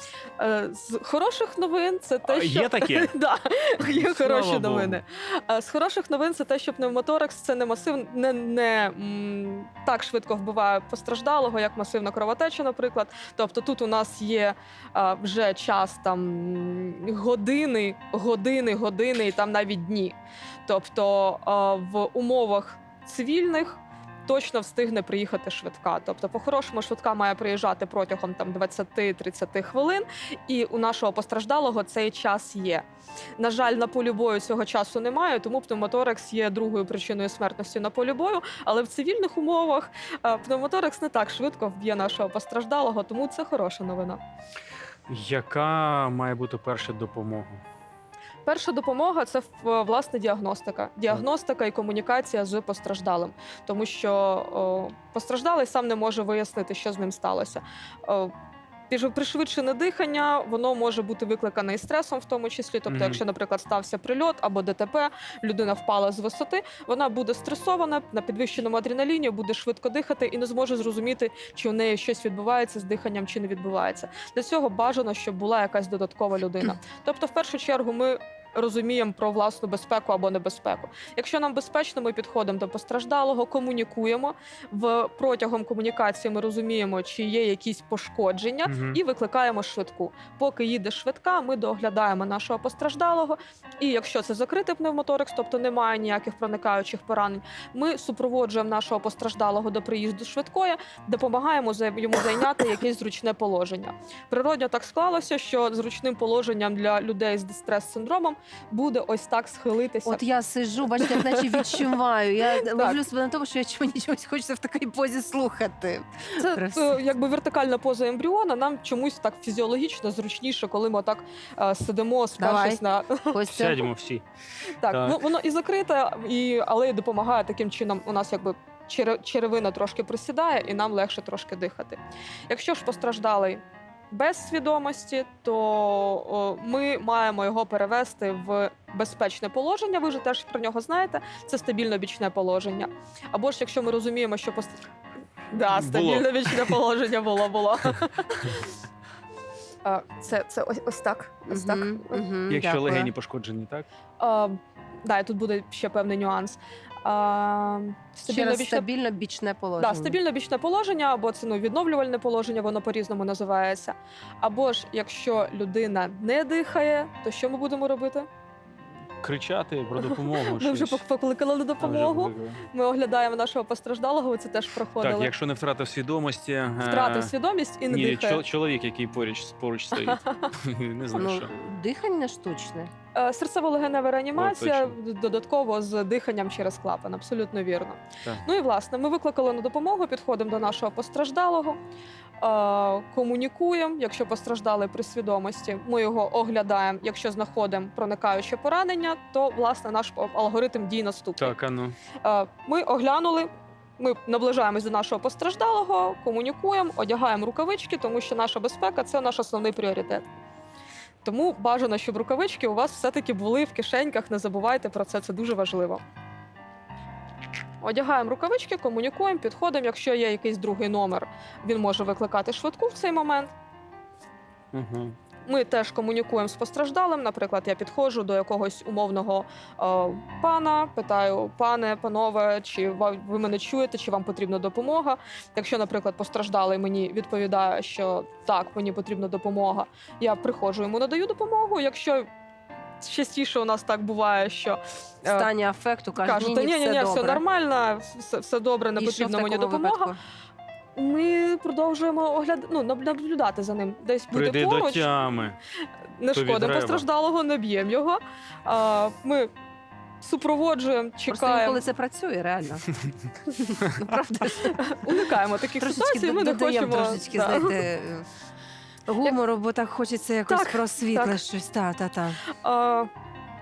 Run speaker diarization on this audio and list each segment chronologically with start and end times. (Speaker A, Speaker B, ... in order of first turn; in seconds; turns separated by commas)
Speaker A: 0.4-32.9, Speaker B: 2.2-3.1, Speaker B: 3.9-5.0, Speaker A: 33.4-44.2, Speaker B: 45.1-47.6, Speaker A: 48.5-58.3, Speaker A: 58.9-110.2, Speaker B: 62.9-63.2, Speaker B: 88.7-89.0, Speaker C: 110.0-117.0, Speaker A: 111.0-111.9, Speaker A: 112.5-113.0, Speaker A: 116.4-123.4, Speaker C: 122.4-122.8, Speaker C: 123.3-123.9, Speaker B: 123.5-124.2, Speaker A: 124.8-144.8, Speaker B: 124.9-125.2, Speaker A: 145.5-148.7, Speaker B: 145.7-146.8, Speaker A: 149.8-152.2, Speaker C: 151.5-153.1, Speaker B: 152.5-153.9, Speaker A: 154.2-158.9, Speaker C: 158.3-160.2, Speaker A: 159.8-168.3, Speaker B: 169.2-171.0, Speaker A: 170.0-175.3, Speaker B: 171.8-172.6, Speaker B: 175.0-177.3, Speaker A: 176.8-178.4, Speaker B: 177.9-181.5, Speaker A: 180.0-180.5, Speaker C: 181.1-182.9, Speaker A: 183.2-191.8, Speaker B: 184.3-184.9, Speaker A: 192.4-201.5, Speaker B: 201.4-202.0, Speaker A: 202.2-210.3, Speaker A: 211.2-216.0, Speaker A: 217.8-223.5, Speaker B: 224.7-225.2, Speaker A: 225.4-242.3, Speaker A: 243.0-245.5, Speaker C: 245.2-247.4, Speaker A: 246.2-250.1, Speaker C: 249.0-250.2, Speaker A: 250.9-255.1, Speaker B: 254.3-255.6, Speaker A: 256.2-259.5, Speaker B: 256.3-257.1, Speaker A: 260.2-261.8, Speaker C: 261.3-262.9, Speaker C: 263.5-264.8, Speaker A: 264.5-267.8, Speaker C: 265.8-268.3, Speaker C: 269.1-272.4, Speaker A: 270.5-271.4, Speaker A: 272.6-273.1